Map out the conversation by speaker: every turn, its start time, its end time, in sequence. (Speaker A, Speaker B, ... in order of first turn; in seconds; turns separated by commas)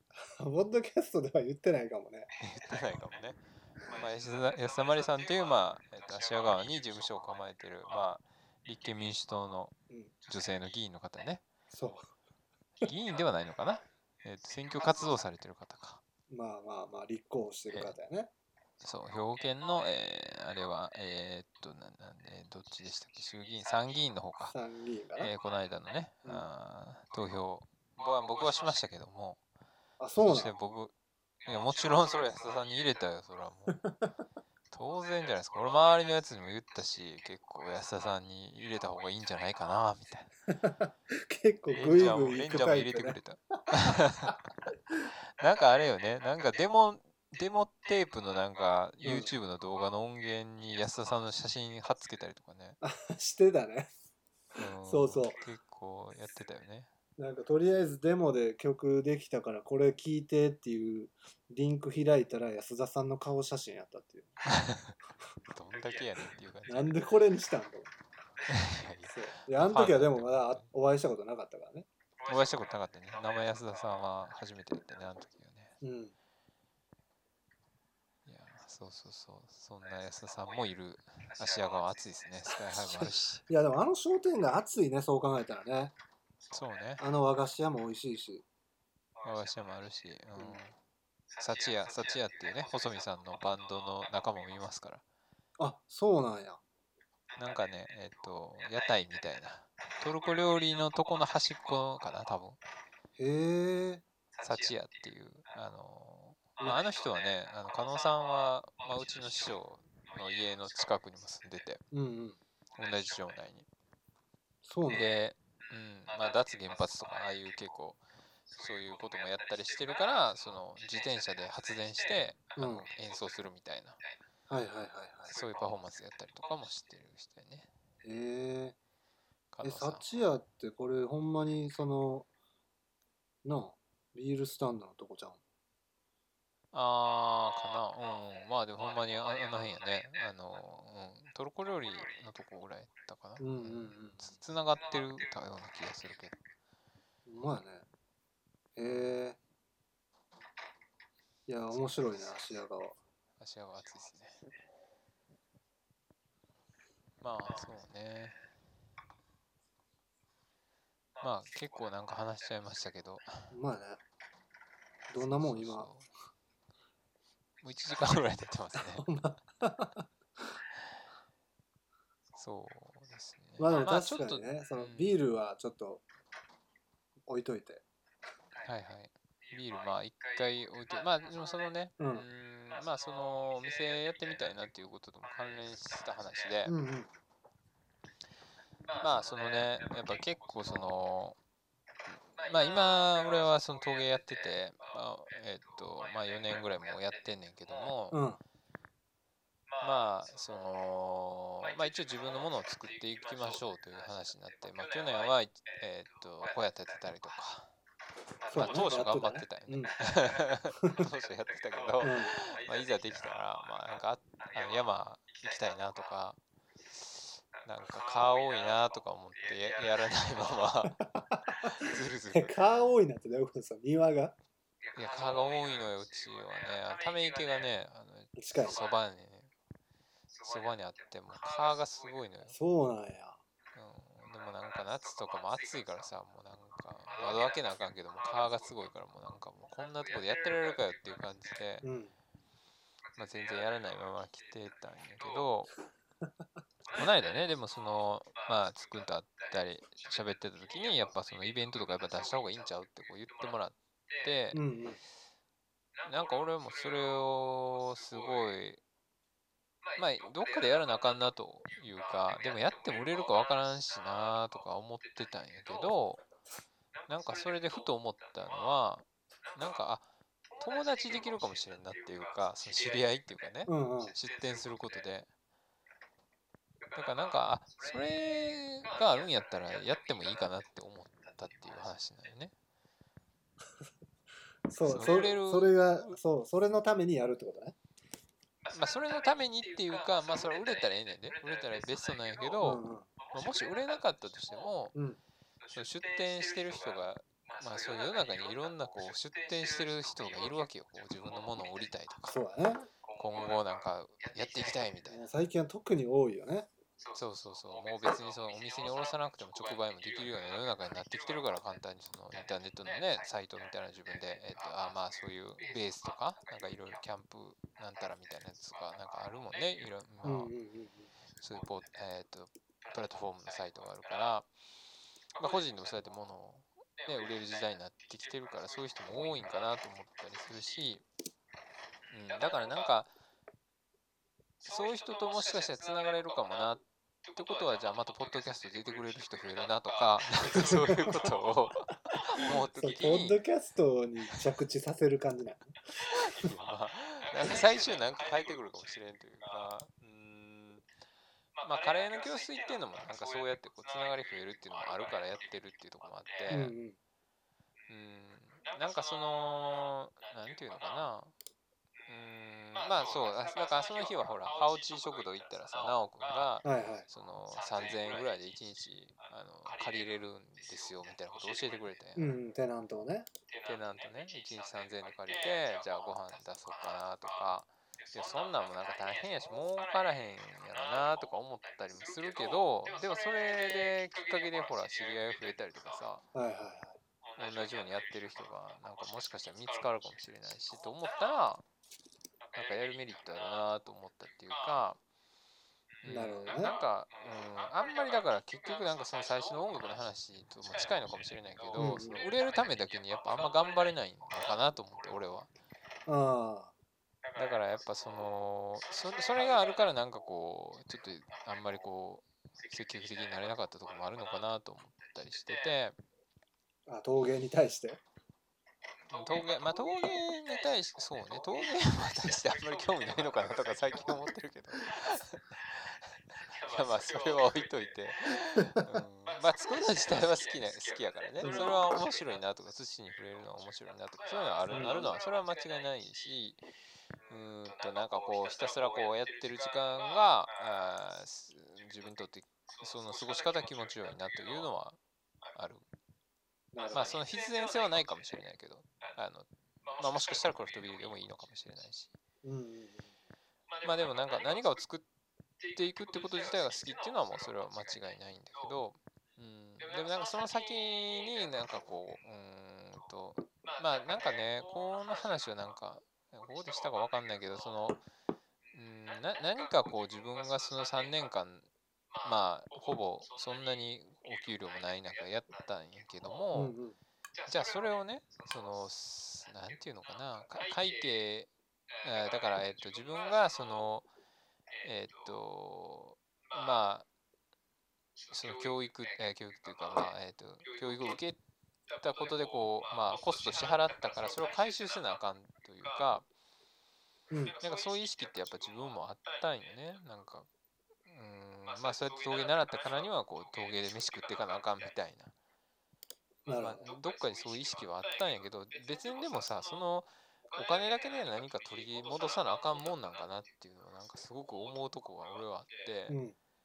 Speaker A: 0.3-2.3, Speaker B: 2.4-9.7, Speaker B: 10.3-11.4, Speaker A: 11.7-12.1, Speaker B: 12.8-16.0, Speaker A: 16.3-18.3, Speaker B: 18.8-24.6, Speaker A: 24.5-25.3, Speaker B: 25.2-29.4, Speaker A: 30.0-30.5, Speaker B: 30.2-30.9, Speaker B: 31.4-33.8, Speaker A: 33.8-34.1, Speaker B: 34.7-40.3, Speaker A: 40.6-43.2, Speaker B: 41.7-44.4, Speaker B: 45.4-52.8, Speaker A: 49.0-49.3, Speaker A: 52.8-53.9, Speaker B: 54.6-56.9, Speaker A: 54.9-55.4, Speaker A: 57.2-64.3, Speaker B: 64.5-65.0, Speaker B: 65.5-67.0, Speaker A: 66.7-67.9, Speaker B: 68.5-70.7, Speaker A: 69.1-71.9, Speaker B: 72.2-75.8, Speaker A: 75.8-76.2, Speaker B: 78.3-83.4, Speaker A: 82.7-86.0, Speaker B: 86.5-87.0, Speaker A: 87.0-88.5, Speaker B: 89.2-90.8, Speaker B: 91.4-95.0, Speaker A: 95.6-96.6, Speaker B: 97.4-102.6, Speaker A: 103.2-104.0, Speaker B: 104.4-111.8, Speaker A: 111.9-112.4, Speaker B: 112.8-113.7, Speaker A: 114.7-115.1, Speaker B: 114.9-118.0, Speaker B: 118.5-124.0, Speaker A: 122.6-122.9, Speaker A: 124.5-125.4, Speaker B: 125.3-127.7, Speaker A: 128.0-128.8, Speaker B: 129.5-130.1, Speaker A: 129.6-132.3, Speaker A: 133.4-135.4, Speaker B: 136.7-146.4, Speaker A: 143.4-144.3, Speaker A: 147.3-147.9, Speaker A: 148.8-149.4, Speaker B: 148.8-149.3, Speaker A: 151.5-153.0, Speaker B: 151.7-152.3, Speaker B: 153.4-154.4, Speaker B: 157.2-158.4, Speaker B: 161.2-163.5, Speaker A: 163.5-164.0, Speaker A: 165.1-165.9, Speaker B: 165.2-166.1, Speaker B: 167.6-169.1, Speaker A: 168.8-170.1, Speaker B: 172.4-175.2, Speaker A: 173.6-176.1, Speaker A: 177.3-177.8, Speaker B: 178.6-186.8, Speaker A: 182.0-182.3, Speaker A: 186.7-187.1, Speaker B: 188.9-191.4, Speaker B: 192.3-198.2, Speaker A: 198.1-198.4, Speaker B: 199.8-207.7, Speaker A: 208.5-209.9, Speaker B: 208.5-216.4, Speaker A: 212.0-212.3, Speaker B: 216.9-221.0, Speaker B: 221.6-223.0, Speaker A: 222.3-224.4, Speaker B: 224.9-229.5, Speaker A: 228.4-228.8, Speaker B: 230.4-232.6, Speaker A: 232.5-233.4, Speaker B: 233.8-241.9, Speaker A: 241.8-242.1, Speaker B: 243.2-245.7, Speaker B: 246.9-254.6, Speaker A: 254.5-255.0, Speaker B: 256.0-258.8, Speaker B: 260.0-266.2, Speaker B: 267.1-275.3, Speaker A: 273.7-274.2, Speaker B: 276.9-282.5, Speaker A: 284.7-287.8, Speaker B: 284.8-286.2, Speaker B: 288.7-294.9, Speaker A: 292.6-293.1, Speaker A: 294.9-295.2, Speaker B: 295.7-302.3, Speaker A: 302.3-302.9, Speaker B: 303.2-305.2, Speaker A: 305.1-306.7, Speaker B: 307.1-320.5, Speaker A: 320.2-321.1, Speaker B: 321.4-324.5, Speaker B: 325.4-331.0, Speaker B: 332.1-333.1, Speaker B: 334.6-343.4, Speaker A: 340.5-341.3, Speaker A: 342.8-345.8, Speaker B: 346.2-350.9, Speaker B: 351.6-356.7, Speaker A: 356.5-357.0, Speaker B: 357.9-361.3, Speaker B: 362.1-372.4, Speaker A: 366.6-367.1, Speaker A: 372.2-373.3, Speaker B: 373.6-386.2, Speaker A: 386.3-387.0, Speaker B: 387.4-391.6, Speaker B: 392.5-395.0, Speaker B: 396.0-405.5, Speaker A: 396.1-396.8, Speaker A: 401.8-402.2, Speaker A: 406.1-406.7, Speaker B: 407.4-416.0, Speaker A: 416.9-418.0, Speaker B: 419.1-426.0, Speaker B: 426.5-436.6, Speaker A: 431.4-431.8, Speaker A: 434.7-435.1, Speaker B: 437.3-445.0, Speaker B: 445.5-445.9, Speaker A: 446.7-447.2, Speaker B: 446.9-452.2, Speaker A: 452.4-453.2, Speaker B: 453.8-455.1, Speaker B: 455.7-468.0, Speaker B: 468.7-471.7, Speaker B: 472.2-476.8, Speaker A: 476.5-477.0, Speaker B: 477.5-481.5, Speaker B: 482.0-484.1, Speaker B: 484.8-487.1, Speaker B: 488.3-491.4, Speaker B: 492.0-496.3, Speaker A: 497.3-497.6, Speaker B: 497.6-500.5, Speaker B: 501.1-505.3, Speaker A: 506.5-506.9, Speaker B: 506.5-516.2, Speaker A: 516.1-516.4